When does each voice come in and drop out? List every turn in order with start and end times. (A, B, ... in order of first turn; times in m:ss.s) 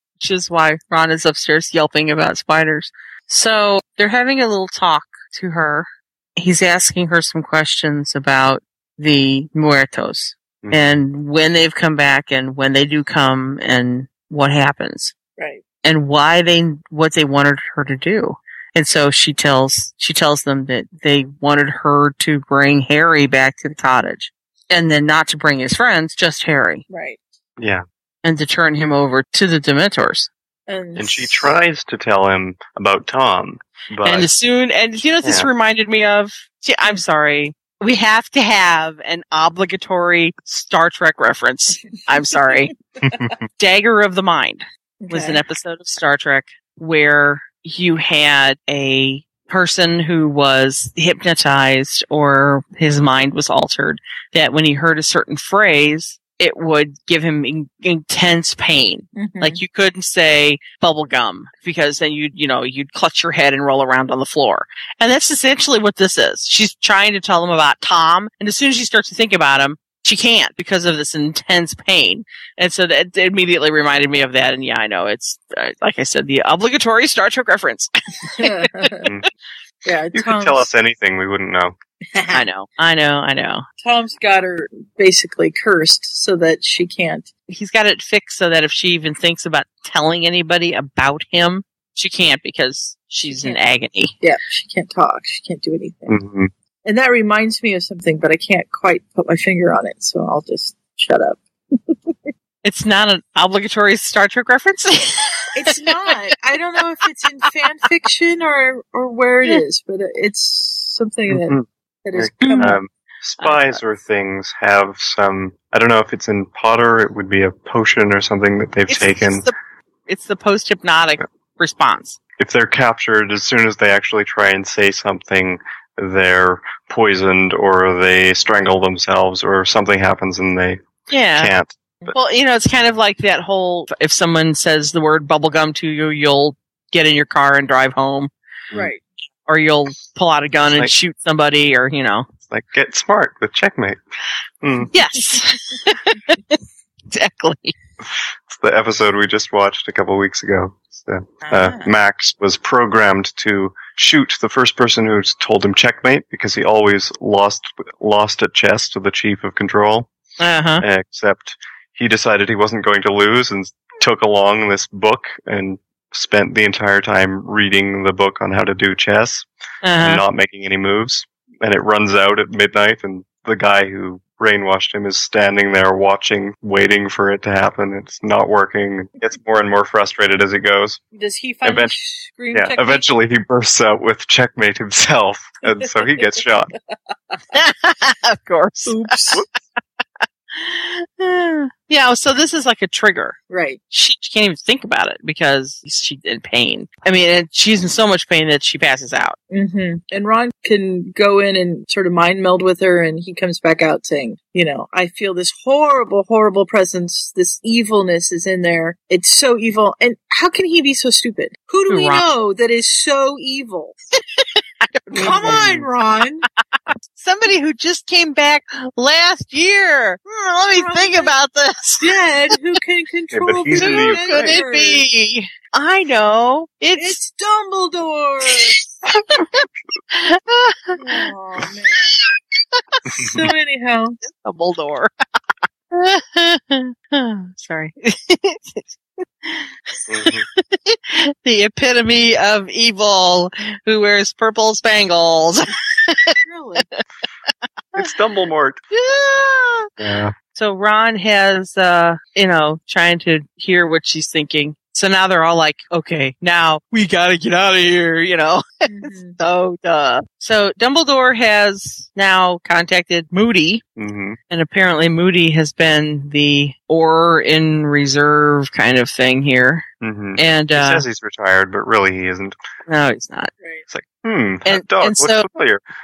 0:00.2-0:15.1 A
0:15.8-0:26.8 A
0:26.9-0:27.2 B
0:27.6-0:27.8 C
0:28.2-0:30.3 A
0:30.7-0:31.5 B
0:31.0-0:34.3 C
0:34.0-0:42.7 A
0:43.0-0:43.4 C
0:43.6-1:18.6 A
0:45.0-0:45.4 B
0:59.2-0:59.6 B
1:18.4-1:19.1 B
1:19.8-1:20.6 B
1:20.1-1:21.8 C
1:22.1-1:22.4 B
1:22.3-1:23.6 A
1:23.8-1:27.3 B
1:27.5-1:34.1 A
1:33.3-1:33.6 B
1:34.2-1:36.2 B
1:36.1-1:36.5 C
1:36.8-1:42.3 B
1:42.6-1:45.8 A
1:45.6-1:52.8 B
1:51.3-1:59.5 C
1:52.4-1:52.8 A
1:53.4-1:53.8 A
1:58.9-1:59.5 A
2:00.1-2:02.2 A
2:02.4-2:10.8 C
2:11.1-2:11.5 A
2:11.4-2:12.1 C
2:12.1-2:18.3 A
2:18.7-2:19.0 B
2:19.5-2:22.3 A
2:22.5-2:24.0 C
2:24.6-2:24.9 C
2:24.9-2:26.6 A
2:27.1-2:27.7 A
2:28.5-2:40.1 C
2:31.4-2:31.9 B
2:40.4-2:40.8 A
2:40.8-2:49.4 C
2:49.8-2:50.2 A
2:50.0-3:01.0 C
3:01.1-3:03.0 B
3:01.6-3:01.9 C
3:02.5-3:06.7 C
3:07.5-3:09.4 A
3:08.9-3:09.4 B
3:10.5-3:13.4 A
3:13.5-3:13.8 B
3:13.9-3:19.4 A
3:19.5-3:33.9 B
3:31.9-3:32.3 A
3:34.4-3:35.7 A
3:35.1-3:36.4 B
3:35.4-3:35.9 C
3:37.2-3:42.1 A
3:40.7-3:41.3 B
3:42.0-3:45.0 B
3:43.3-3:44.6 C
3:43.8-3:47.2 A
3:47.0-3:48.8 B
3:49.1-3:51.3 A
3:51.0-3:52.2 B
3:52.7-3:53.0 A
3:53.2-3:54.2 B
3:54.2-3:55.1 A
3:55.9-4:06.4 A
4:00.1-4:00.4 C
4:06.4-4:06.9 B
4:08.0-4:08.8 C
4:08.9-4:09.9 A
4:10.0-4:10.3 C
4:10.5-4:23.8 A
4:18.9-4:19.4 B
4:24.0-4:24.4 C
4:24.5-4:29.8 A
4:30.0-4:32.6 C
4:30.4-4:31.0 A
4:32.9-4:33.5 A
4:33.9-4:35.8 C
4:34.6-4:35.4 A